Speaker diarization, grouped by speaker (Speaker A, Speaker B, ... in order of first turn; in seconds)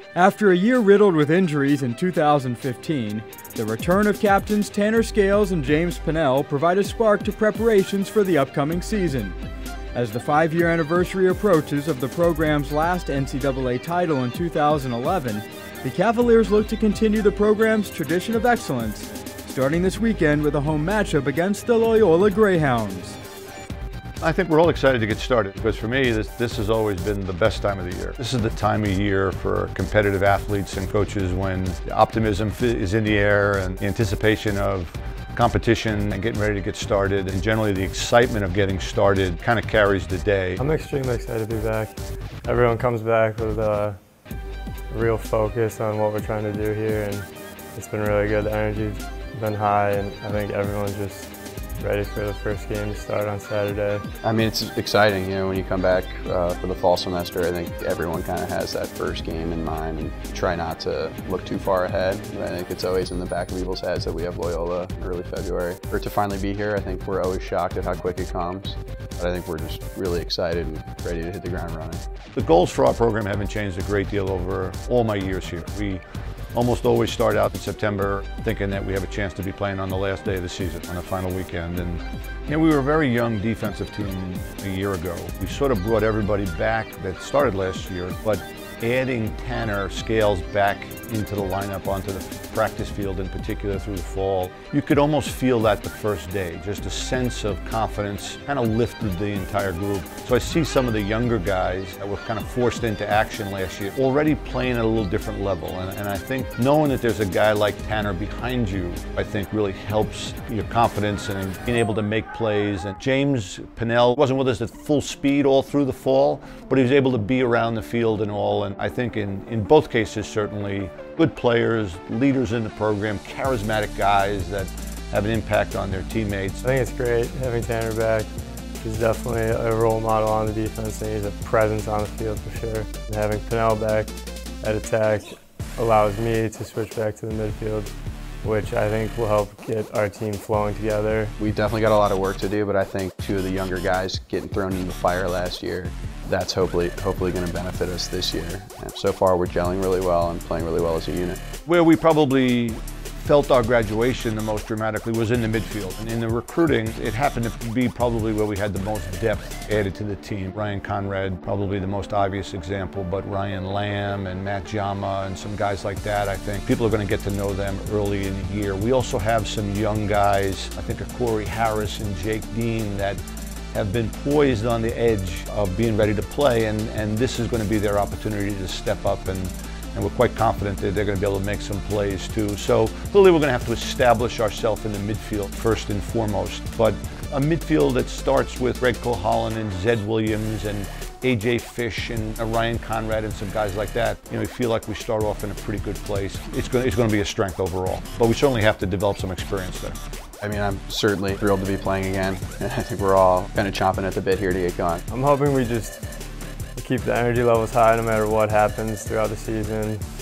Speaker A: 0.1-9.3, 9.9-23.2
Speaker B: 24.2-40.6, 72.3-76.0, 76.5-126.6, 151.7-173.2, 173.7-200.0
Speaker C: 40.6-44.0, 44.9-54.0, 126.6-137.9, 138.4-141.3, 205.1-206.0, 206.8-210.0
Speaker D: 54.2-72.0, 141.4-151.4, 200.4-205.0